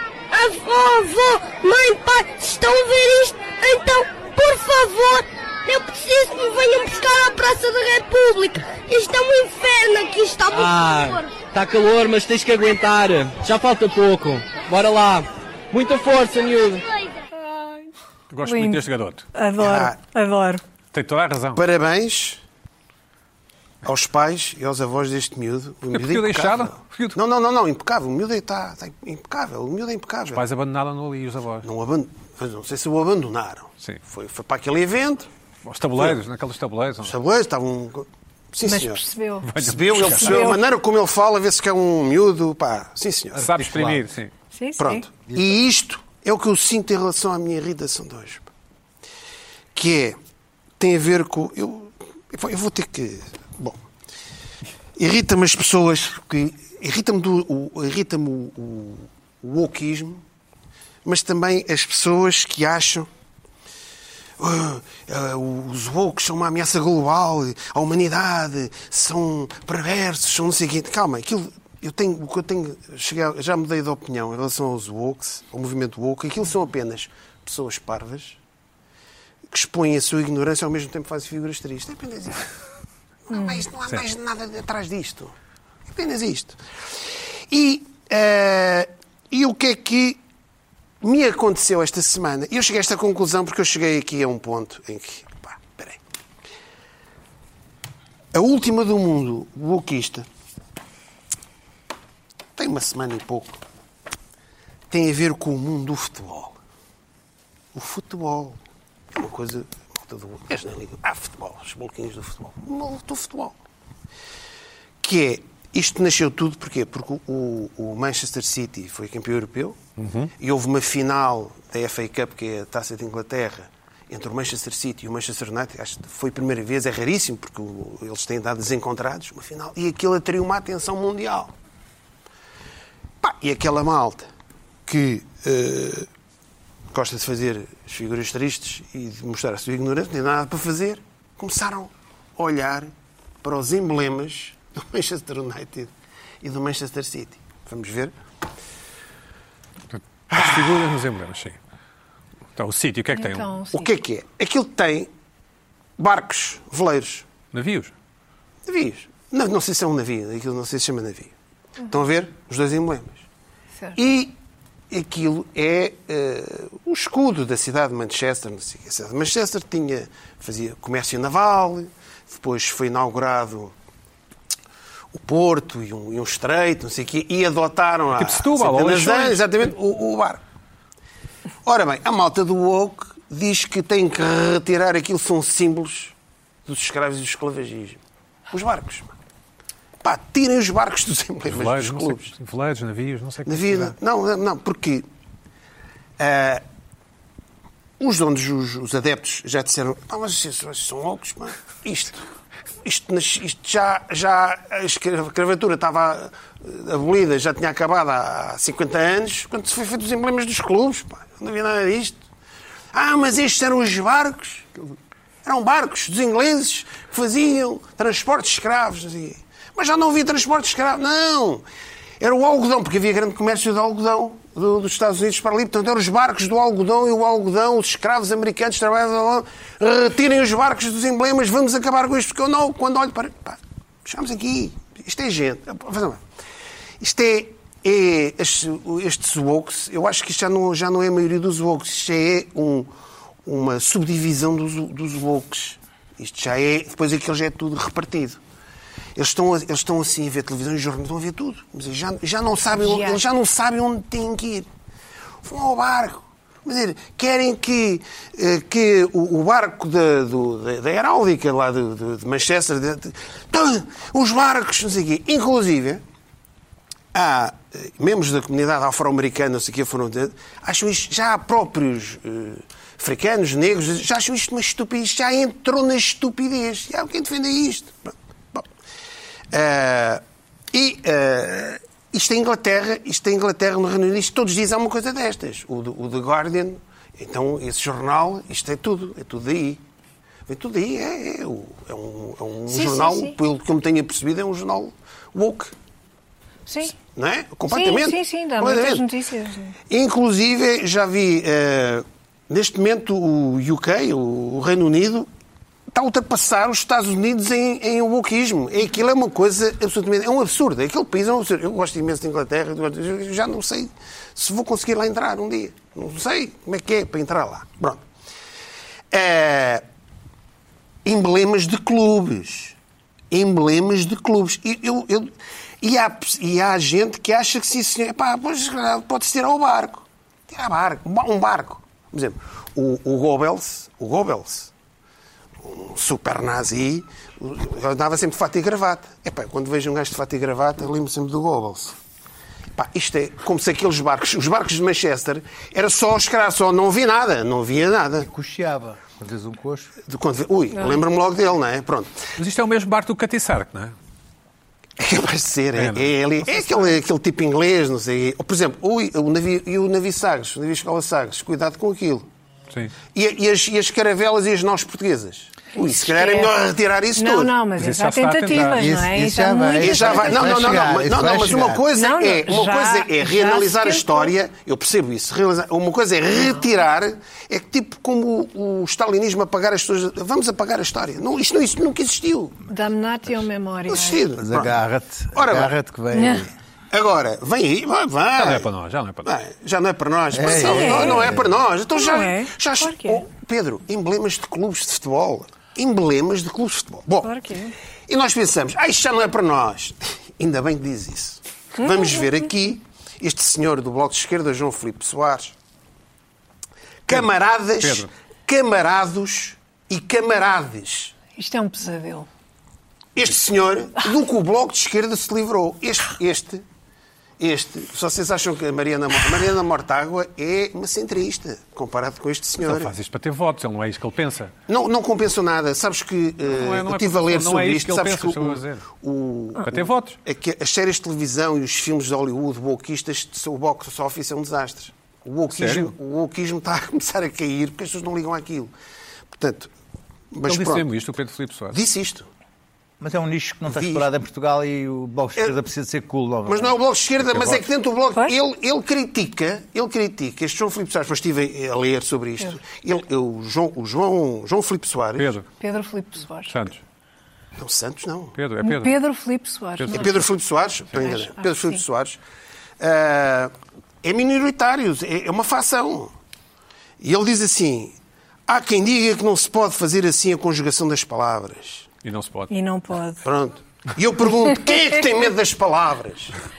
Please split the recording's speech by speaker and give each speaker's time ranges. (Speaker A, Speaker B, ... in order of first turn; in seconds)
Speaker A: 0.3-11.4
Speaker B: 10.5-16.9
Speaker C: 17.3-17.9, 18.4-18.8, 19.3-20.6, 38.6-40.6, 44.5-45.0, 83.3-83.6, 153.1-153.9, 252.7-253.2, 292.7-293.4, 296.7-297.0, 297.7-299.7, 350.8-351.0, 365.7-366.5, 367.1-370.8, 371.9-374.3, 382.7-384.2, 386.1-386.4, 390.6-391.2, 391.9-393.2, 397.2-397.7, 401.8-402.2, 411.3-412.3, 455.6-456.6, 458.6-460.1, 461.0-461.8, 472.5-473.2
Speaker D: 18.3-19.3, 20.9-21.6, 25.9-27.2, 30.3-31.6, 35.6-37.1, 39.5-40.5, 43.4-44.3, 120.0-120.3, 149.9-151.6, 152.6-153.5, 157.5-157.9, 178.2-179.7, 191.4-193.9, 352.4-353.9, 355.7-356.1, 367.8-368.9, 388.4-389.3, 407.8-408.1, 422.6-424.5, 426.5-428.9, 429.7-430.2, 435.5-435.9, 440.5-441.8, 455.2-455.4, 456.5-456.8, 458.4-458.9, 459.8-460.2, 472.0-472.5
Speaker E: 19.6-19.9, 21.5-22.4, 23.8-30.4, 31.6-35.3, 37.0-39.0, 39.5-43.4, 44.8-48.5, 49.7-50.2, 50.8-53.8, 55.0-60.2, 61.0-63.1, 64.4-78.4, 79.5-82.5, 83.3-85.3, 85.9-86.6, 87.5-90.2, 91.0-96.0, 98.3-100.2, 102.6-103.6, 104.9-106.5, 107.7-108.6, 109.1-113.5, 115.0-119.8, 120.4-131.5, 133.2-134.3, 134.8-136.1, 136.9-145.9, 146.4-148.1, 150.3-150.9, 153.7-155.1, 156.0-157.2, 158.7-161.3, 161.9-163.2, 163.9-164.3, 164.9-173.7, 175.1-180.4, 181.6-186.1, 186.7-189.1, 190.0-192.3, 193.4-195.1, 196.2-196.6, 198.0-202.2, 202.8-212.2, 212.9-214.7, 215.4-221.6, 222.2-236.2, 237.0-242.9, 243.4-248.4, 249.2-254.7, 255.4-266.0, 267.1-278.6, 279.5-289.8, 290.5-295.7, 297.1-299.1, 299.9-305.3, 305.9-318.0, 319.1-319.8, 321.0-322.7, 323.3-334.7, 335.6-341.9, 342.7-348.3, 350.0-352.2, 355.0-362.3, 363.1-367.5, 369.8-382.6, 383.9-384.8, 385.3-385.8, 386.9-388.7, 389.2-397.3, 398.1-405.5, 407.1-411.1, 413.1-416.6, 417.4-422.9, 424.7-438.7, 439.3-439.7, 440.3-440.9, 441.7-442.3, 443.7-444.1, 446.4-455.3, 457.6-458.4, 459.9-462.2, 462.8-466.1, 467.0-467.9, 468.5-471.9, 473.2-476.3
Speaker F: 43.4-44.1, 348.2-349.9, 368.6-371.8, 384.4-386.5, 390.3-391.5, 443.0-447.6